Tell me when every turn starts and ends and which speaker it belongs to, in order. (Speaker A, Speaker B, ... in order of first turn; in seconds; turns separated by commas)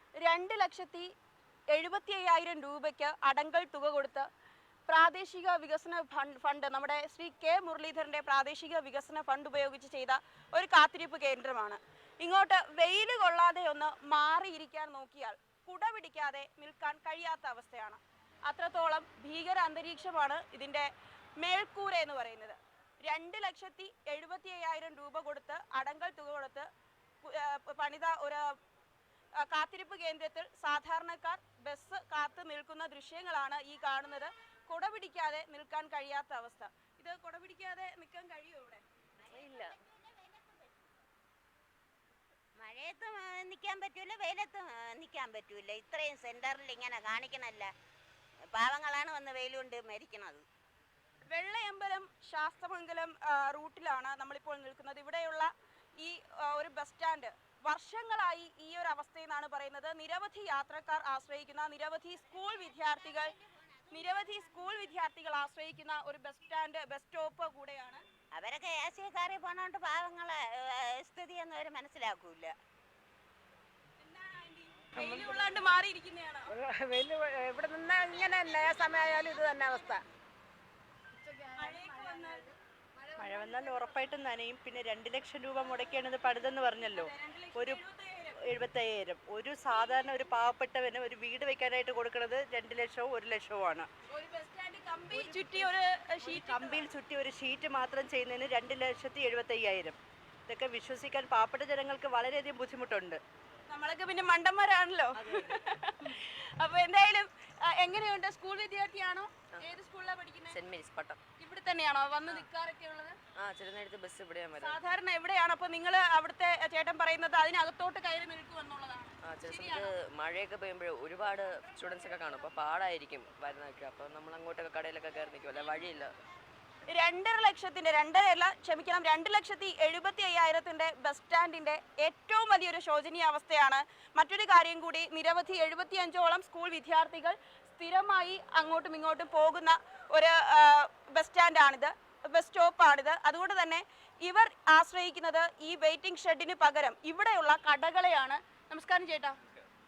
Speaker A: 0.2-1.1, Speaker A: 1.7-4.3, Speaker A: 4.9-26.7, Speaker A: 27.2-28.4, Speaker A: 29.4-38.8, Speaker B: 39.3-39.8, Speaker C: 39.4-40.6, Speaker C: 42.6-47.7, Speaker C: 48.5-50.4, Speaker A: 51.3-63.3, Speaker C: 62.6-64.7, Speaker A: 63.9-68.0, Speaker C: 68.3-72.5, Speaker A: 74.0-76.5, Speaker D: 76.6-80.0, Speaker A: 77.9-80.0, Speaker A: 81.4-83.7, Speaker E: 83.2-87.8, Speaker A: 86.2-88.4, Speaker E: 88.4-93.9, Speaker A: 89.7-90.3, Speaker A: 94.1-96.9, Speaker E: 96.2-103.2, Speaker A: 103.7-110.6, Speaker B: 105.2-105.5, Speaker B: 110.5-111.2, Speaker A: 111.4-113.2, Speaker B: 113.4-114.8, Speaker A: 114.6-119.9, Speaker B: 119.2-126.1, Speaker A: 126.9-149.4